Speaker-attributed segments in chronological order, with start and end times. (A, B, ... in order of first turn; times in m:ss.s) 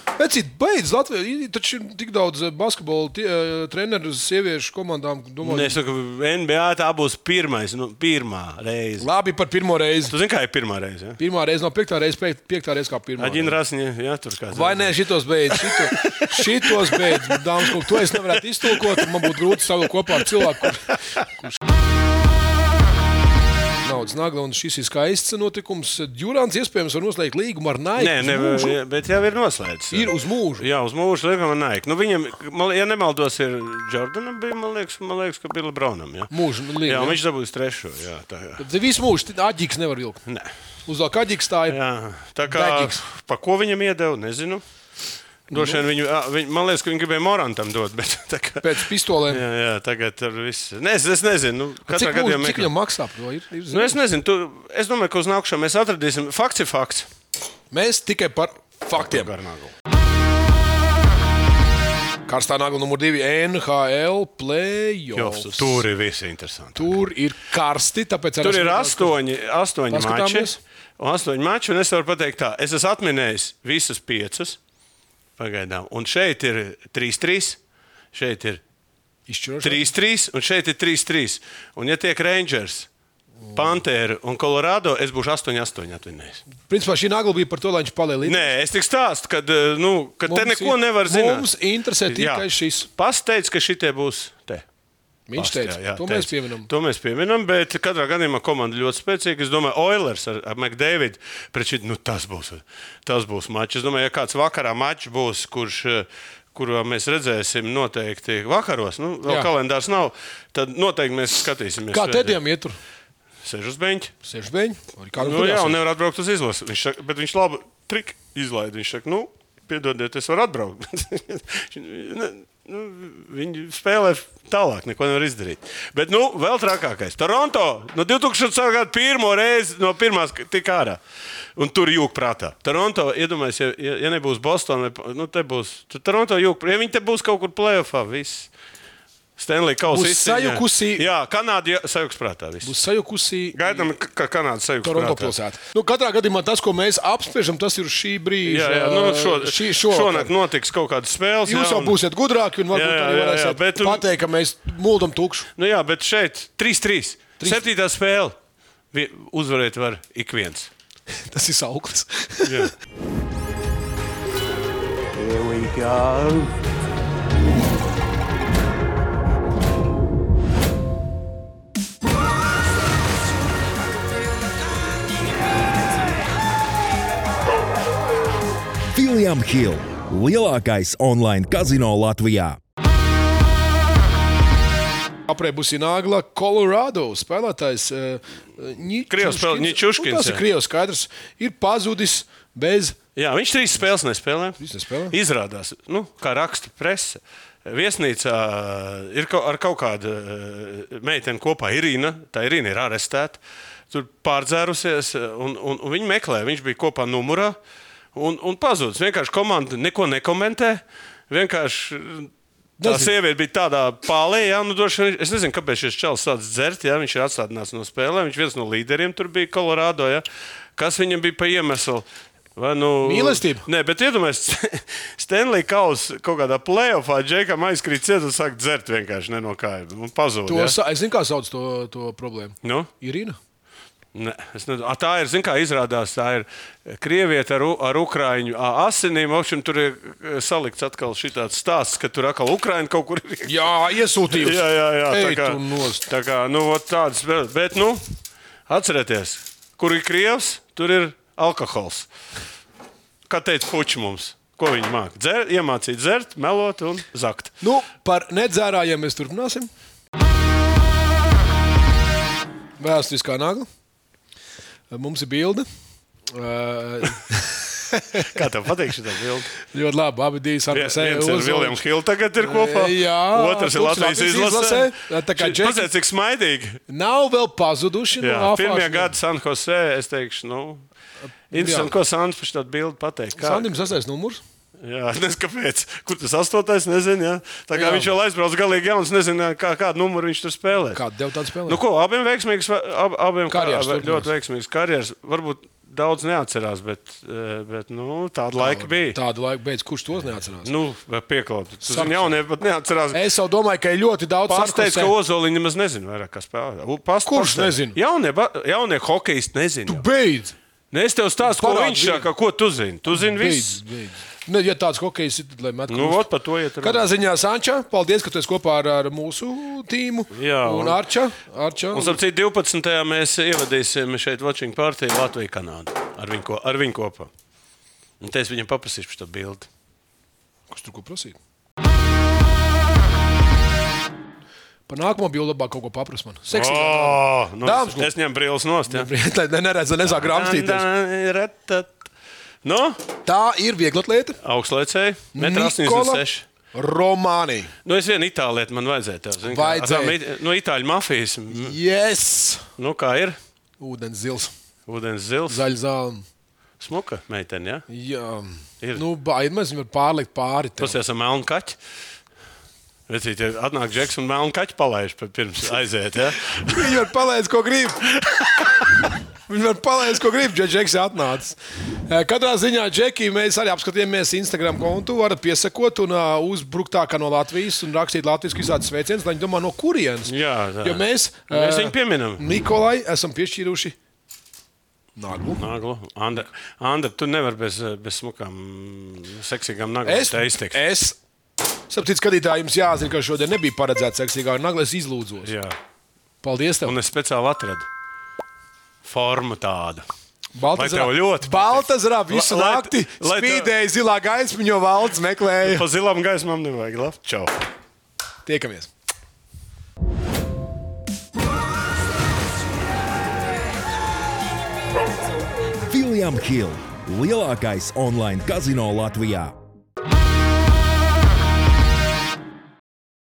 0:00.2-0:05.8 A
0:05.4-0:09.1 B
0:09.0-0:10.1 A
0:10.1-0:11.2 B
0:11.2-0:13.6 A
0:13.2-0:15.0 B
0:14.5-0:21.4 A
0:15.5-0:19.4 B
0:20.1-0:20.6 B
0:23.8-0:28.8 A
0:28.0-0:38.6 B
0:29.9-0:30.6 A
0:36.3-0:37.2 A
0:38.6-0:40.2 A
0:40.9-0:41.8 A
0:41.7-0:44.6 B
0:42.5-0:43.0 A
0:45.5-0:52.7 B
0:45.5-0:45.8 A
0:48.6-0:49.4 A
0:51.9-0:54.0 A
0:53.7-0:57.1 B
0:57.7-0:59.3 A
0:59.0-0:59.7 B
1:02.3-1:05.8 A
1:05.1-1:07.0 B
1:06.7-1:09.1 A
1:08.4-1:14.6 B
1:09.9-1:10.6 A
1:15.4-1:17.6 B
1:18.1-1:18.6 B
1:19.3-1:19.9 A
1:19.6-1:22.9 B
1:23.5-1:26.4 B
1:26.6-1:28.5 A
1:28.2-1:31.5 B
1:30.3-1:32.9 A
1:32.1-1:34.6 B
1:35.3-1:36.7 A
1:35.4-1:52.4 B
1:49.2-1:49.5 A
1:51.9-1:52.8 A
1:53.4-1:54.1 B
1:54.2-1:55.8 A
1:55.2-2:11.0 B
2:11.6-2:18.5 B
2:19.4-2:22.7 B
2:19.9-2:21.0 A
2:22.6-2:23.8 A
2:23.5-2:25.3 B
2:24.8-2:30.3 A
2:28.4-2:32.0 B
2:31.4-2:35.5 A
2:32.7-2:34.0 B
2:35.6-2:38.3 B
2:38.9-2:40.7 B
2:41.2-2:42.7 A
2:42.4-2:42.7 B
2:45.1-2:46.5 B
2:58.8-3:02.6 C
3:05.3-3:13.0 A
3:09.1-3:10.4 B
3:13.2-3:14.6 B
3:14.6-3:15.1 A
3:15.1-3:23.4 B
3:23.9-3:27.6 B
3:28.1-3:32.3 B
3:32.8-3:33.1 A
3:32.8-3:40.2 B
3:40.8-3:50.8 B
3:43.0-3:43.6 A
3:50.5-3:53.4 A
3:52.6-3:52.9 B
3:54.1-4:08.1 B
4:03.4-4:06.1 A
4:08.7-4:12.1 B
4:13.3-4:17.5 B
4:17.6-4:19.7 A
4:22.8-4:23.7 A
4:24.9-4:25.6 A
4:26.3-4:28.4 A
4:28.3-4:29.5 B
4:29.6-4:31.8 A
4:30.7-4:36.8 B
4:32.4-4:35.9 A
4:36.9-4:39.1 A
4:38.2-4:40.8 B
4:41.5-4:41.9 A
4:41.5-4:43.7 B
4:43.4-4:44.4 A
4:44.8-4:51.0 B
4:47.7-4:48.1 A
4:50.9-4:51.8 A
4:51.7-4:59.2 B
4:53.5-4:54.3 A
4:58.6-5:00.7 A
5:00.6-5:03.2 B
5:01.8-5:02.3 A
5:03.1-5:05.1 A
5:04.5-5:10.0 B
5:07.2-5:08.0 A
5:09.9-5:10.5 A
5:10.9-5:13.8 B
5:11.4-5:12.3 A
5:13.1-5:16.2 A
5:15.9-5:17.1 B
5:16.8-5:22.2 A
5:20.3-5:21.0 B
5:21.9-5:27.3 B
5:28.2-5:29.7 B
5:30.7-5:31.4 A
5:34.9-5:38.1 A
5:36.5-5:39.1 B
5:38.9-5:40.8 A
5:40.0-5:42.1 B
5:42.6-5:43.0 B
5:43.2-5:44.4 A
5:44.4-5:46.4 B
5:45.3-5:47.7 A
5:47.8-5:51.8 B
5:49.5-5:50.2 A
5:51.5-5:52.7 A
5:52.8-5:53.4 B
5:53.8-5:54.5 A
5:54.9-5:55.6 B
5:55.5-5:56.2 A
5:56.8-5:57.8 B
5:57.9-6:01.0 A
6:00.8-6:01.8 B
6:03.1-6:07.0 B
6:06.7-6:08.1 A
6:08.2-6:08.7 B
6:09.5-6:11.6 A
6:12.1-6:20.3 A
6:20.2-6:22.4 B
6:20.8-6:24.0 A
6:25.2-6:25.6 A
6:25.6-6:30.8 B
6:30.0-6:31.2 A
6:31.9-6:35.5 A
6:35.4-6:35.7 B
6:36.4-6:37.0 A
6:36.8-6:37.8 B
6:39.0-6:40.0 B
6:40.5-6:45.8 A
6:40.8-6:43.7 B
6:45.6-6:47.6 B
6:48.4-6:48.9 A
6:55.8-6:59.6 C